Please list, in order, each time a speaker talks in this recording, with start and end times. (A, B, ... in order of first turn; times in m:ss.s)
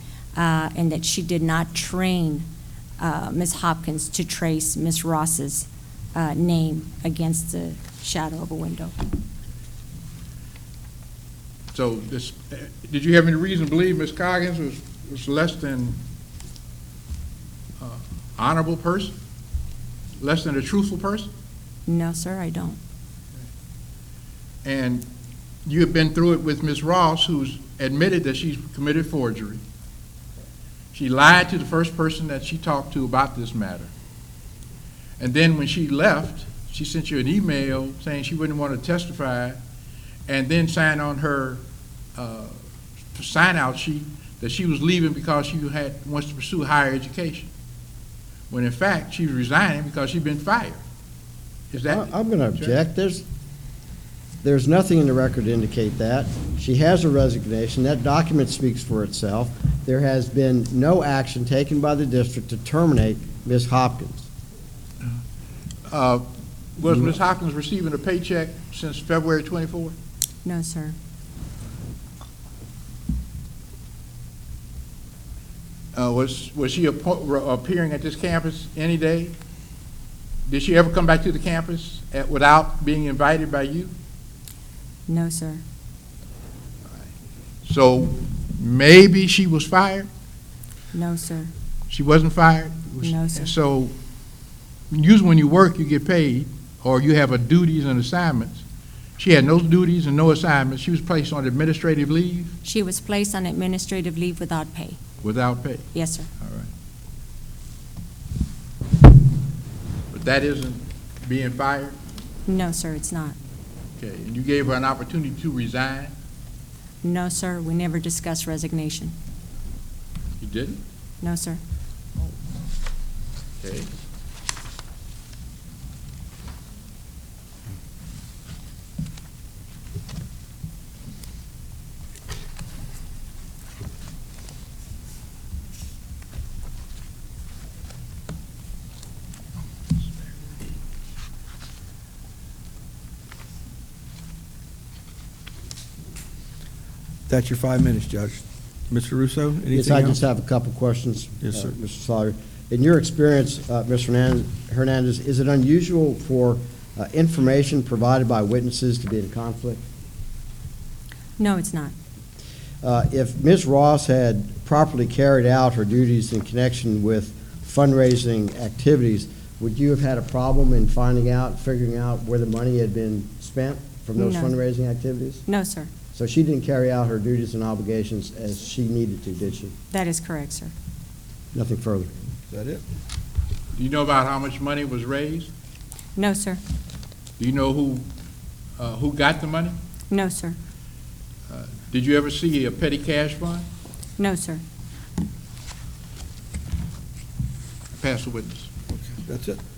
0:00.3-0:02.4 A
0:03.0-0:08.9 A
0:11.7-0:16.0 B
0:17.8-0:19.1 B
0:20.2-0:21.3 B
0:21.8-0:22.8 A
0:24.6-0:25.0 B
0:25.6-0:29.6 B
0:30.9-0:33.9 B
0:35.2-0:39.6 B
0:40.3-0:41.6 B
0:42.1-0:42.6 B
0:43.1-0:47.5 B
0:48.5-0:50.8 B
0:51.7-0:52.7 B
0:51.8-0:53.2 C
0:54.4-1:04.3 C
1:05.9-1:06.2 B
1:06.8-1:09.9 B
1:10.4-1:11.0 A
1:15.9-1:19.3 B
1:20.5-1:23.9 B
1:25.1-1:25.6 A
1:27.6-1:30.1 B
1:30.9-1:31.5 A
1:31.9-1:33.9 B
1:33.0-1:33.5 A
1:34.9-1:38.6 B
1:39.2-1:42.5 B
1:42.6-1:45.0 A
1:45.2-1:45.9 B
1:45.9-1:46.3 A
1:46.4-1:46.7 B
1:50.1-1:52.0 B
1:52.5-1:53.4 A
1:54.0-1:56.1 B
1:57.0-1:59.1 A
2:00.4-2:00.8 B
2:01.2-2:01.6 A
2:03.6-2:03.9 B
2:27.3-2:30.2 D
2:29.7-2:39.8 C
2:31.4-2:31.7 D
2:41.4-2:41.9 A
2:42.8-2:55.4 C
2:54.2-2:54.5 A
2:55.4-2:55.9 A
2:56.1-2:59.7 C
2:59.9-3:00.7 A
3:01.5-3:02.1 C
3:02.5-3:02.8 D
3:03.8-3:05.5 B
3:06.2-3:06.6 A
3:07.4-3:08.0 B
3:08.8-3:09.8 B
3:10.1-3:10.6 A
3:11.5-3:13.7 B
3:14.2-3:14.6 A
3:17.9-3:18.7 B
3:18.9-3:19.6 D